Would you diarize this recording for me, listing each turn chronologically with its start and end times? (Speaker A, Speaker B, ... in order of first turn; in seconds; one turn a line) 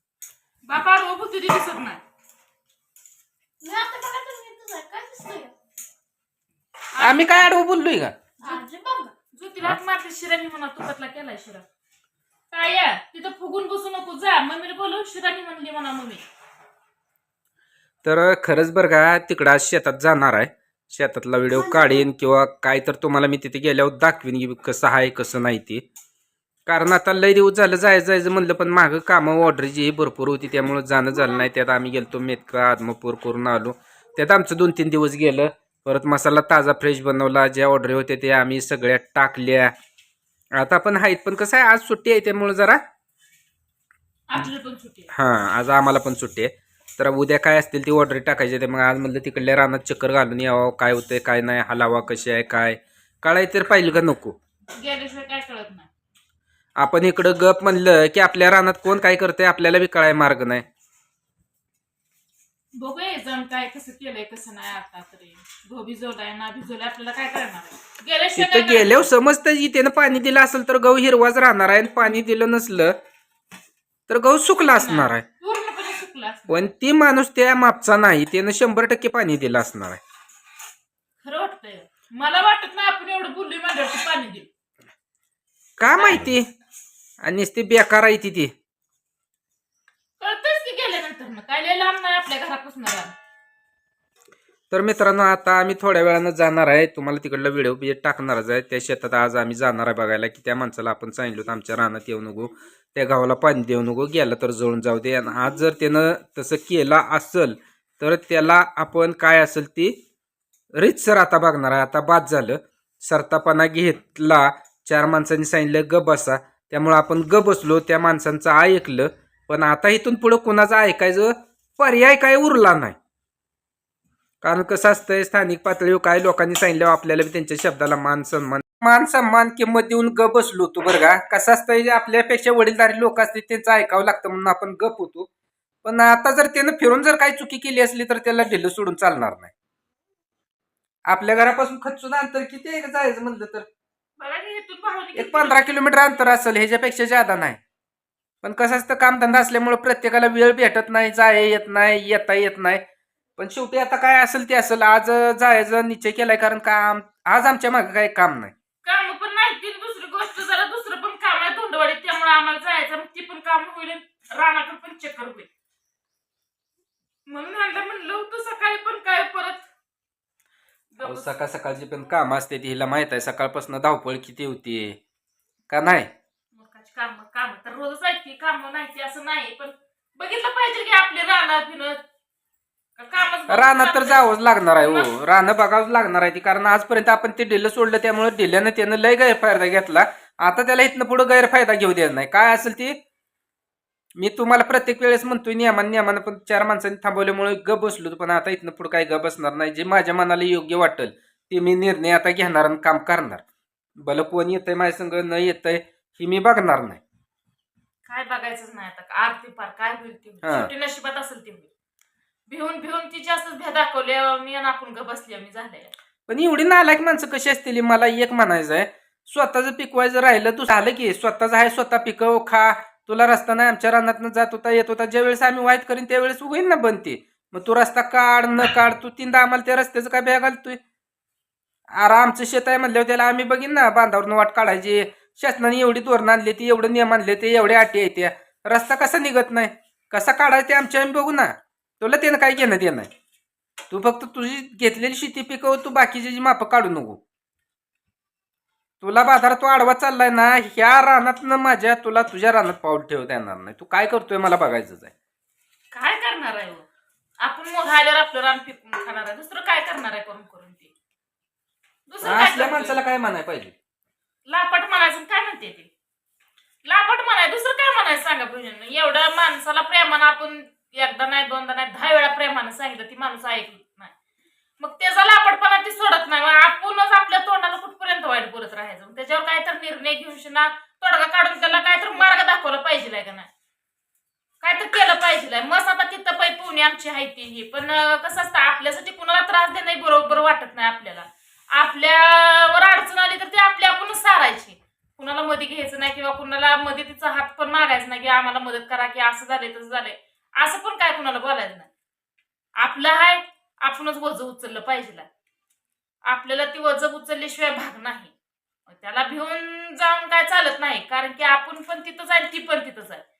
Speaker A: 0.7-2.0
Speaker B: 3.6-5.5
Speaker A: 6.9-7.6
Speaker C: 7.0-8.2
Speaker B: 8.4-9.1
Speaker A: 9.3-11.7
Speaker A: 12.5-16.2
Speaker C: 18.0-25.8
Speaker B: 21.5-22.1
Speaker C: 26.7-39.7
Speaker C: 40.6-42.8
Speaker A: 44.3-45.1
Speaker C: 45.1-54.4
Speaker A: 54.8-55.9
Speaker C: 56.8-60.7
Speaker A: 62.8-69.1
Speaker C: 68.4-73.0
Speaker C: 74.1-75.2
Speaker A: 74.7-76.7
Speaker C: 76.5-80.0
Speaker A: 81.2-84.5
Speaker C: 85.8-86.5
Speaker A: 86.0-86.3
Speaker C: 87.2-88.5
Speaker A: 90.2-93.1
Speaker C: 94.7-110.0
Speaker C: 110.8-123.0
Speaker C: 124.4-135.3
Speaker C: 135.8-139.5
Speaker C: 141.1-143.7
Speaker A: 144.2-145.7
Speaker C: 145.2-147.6
Speaker C: 148.4-152.8
Speaker C: 153.4-158.5
Speaker A: 158.8-165.5
Speaker A: 167.3-169.7
Speaker A: 170.9-171.3
Speaker C: 171.0-175.0
Speaker C: 175.7-176.1
Speaker A: 176.5-182.0
Speaker A: 183.0-185.1
Speaker C: 183.5-193.0
Speaker C: 194.2-203.4
Speaker C: 204.0-207.0
Speaker A: 208.1-211.7
Speaker C: 210.4-210.7
Speaker A: 212.5-215.9
Speaker C: 216.3-230.8
Speaker C: 232.0-243.1
Speaker C: 243.9-247.2
Speaker C: 249.0-255.1
Speaker A: 255.9-256.9
Speaker A: 257.4-260.9
Speaker A: 262.1-263.0
Speaker C: 262.2-263.7
Speaker A: 264.5-265.9
Speaker A: 266.9-274.1
Speaker A: 274.8-283.5
Speaker A: 284.6-301.9
Speaker A: 302.8-305.3
Speaker A: 306.3-308.3
Speaker A: 308.9-313.2